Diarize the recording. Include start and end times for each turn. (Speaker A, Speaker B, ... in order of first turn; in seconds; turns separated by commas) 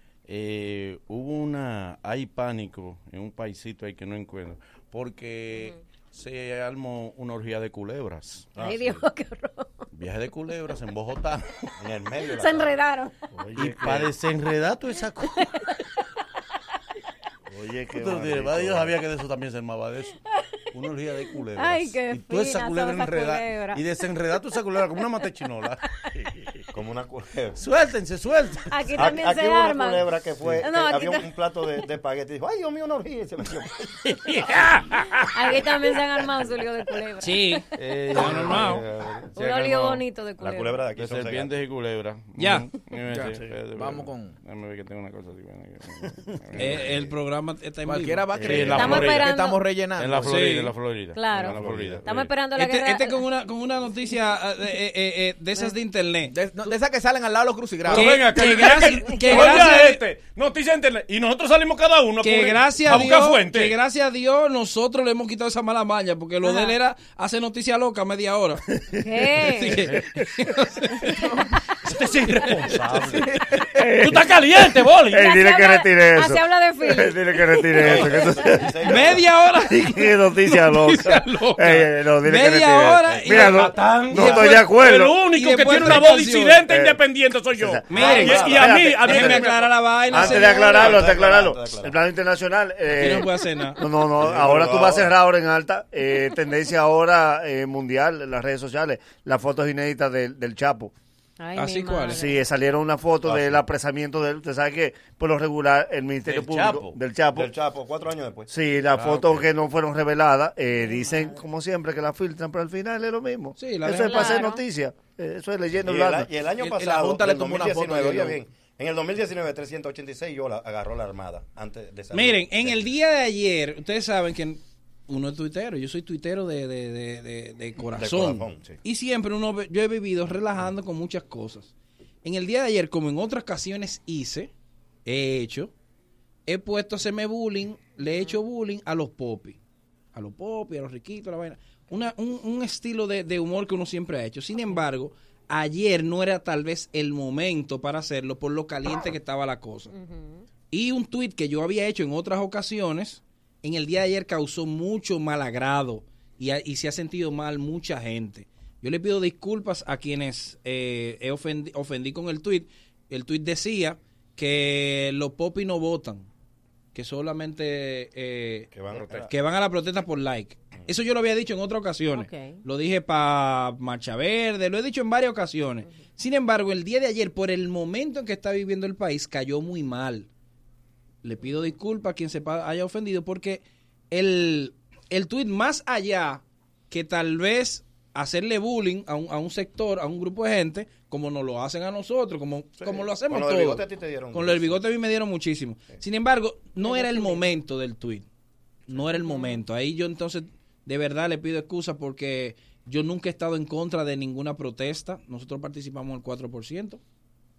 Speaker A: 0.3-8.6, Speaker B: 8.6-8.9, Speaker C: 8.6-9.8, Speaker A: 9.9-11.7, Speaker B: 11.8-12.8, Speaker C: 12.4-13.2, Speaker D: 13.3-14.1, Speaker A: 13.6-15.5, Speaker C: 15.4-15.7, Speaker D: 17.5-18.9, Speaker A: 18.0-20.2, Speaker A: 20.7-25.8, Speaker C: 21.6-23.8, Speaker B: 26.7-27.6, Speaker A: 27.6-28.7, Speaker C: 28.7-30.1, Speaker B: 28.9-34.0, Speaker C: 30.6-31.3, Speaker A: 34.2-35.2, Speaker C: 35.3-37.6, Speaker E: 37.2-38.8, Speaker A: 37.8-38.8, Speaker B: 38.1-39.5, Speaker C: 39.4-40.8, Speaker A: 39.4-40.0, Speaker B: 40.4-41.5, Speaker A: 41.0-47.1, Speaker E: 42.4-42.7, Speaker F: 43.1-44.4, Speaker E: 46.6-48.3, Speaker F: 47.9-50.4, Speaker B: 48.4-48.7, Speaker A: 48.4-49.3, Speaker C: 48.7-49.6, Speaker A: 50.0-52.3, Speaker E: 50.2-50.7, Speaker C: 51.1-53.2, Speaker B: 51.4-52.1, Speaker E: 52.5-56.4, Speaker F: 56.3-58.1, Speaker A: 57.9-63.8, Speaker E: 57.9-60.0, Speaker C: 59.1-59.5, Speaker E: 62.2-68.6, Speaker C: 66.4-66.8, Speaker C: 69.0-69.8, Speaker E: 69.4-71.2, Speaker A: 71.8-73.4, Speaker D: 73.8-74.2, Speaker A: 74.0-75.4, Speaker D: 75.1-78.8, Speaker C: 75.2-77.2, Speaker B: 77.8-79.3, Speaker E: 78.8-84.6, Speaker D: 79.7-85.2, Speaker A: 83.1-90.5, Speaker E: 85.2-86.7, Speaker D: 86.7-87.0, Speaker D: 87.5-89.4, Speaker E: 87.9-91.1, Speaker B: 87.9-88.7, Speaker D: 90.1-100.9, Speaker B: 90.6-92.0, Speaker E: 92.9-93.8, Speaker B: 94.2-95.1, Speaker C: 101.4-102.4, Speaker E: 101.5-102.3, Speaker D: 102.1-107.5, Speaker B: 103.2-103.6, Speaker A: 106.3-107.0, Speaker B: 107.3-108.5, Speaker D: 108.5-116.3, Speaker A: 108.9-109.5, Speaker C: 110.8-111.4, Speaker E: 113.6-114.4, Speaker C: 114.0-114.6, Speaker B: 115.8-122.8, Speaker F: 116.6-118.4, Speaker E: 122.1-131.7, Speaker B: 127.9-128.8, Speaker E: 132.2-134.5, Speaker E: 135.1-135.7, Speaker E: 136.5-139.6, Speaker C: 138.1-138.4, Speaker E: 140.1-149.9, Speaker C: 149.9-150.5, Speaker E: 150.7-166.3, Speaker E: 166.9-168.7, Speaker B: 168.7-169.3, Speaker A: 168.9-169.3, Speaker E: 169.3-180.3, Speaker C: 172.1-172.6, Speaker E: 181.2-198.3, Speaker B: 192.8-194.8, Speaker E: 198.9-207.0, Speaker C: 199.2-199.6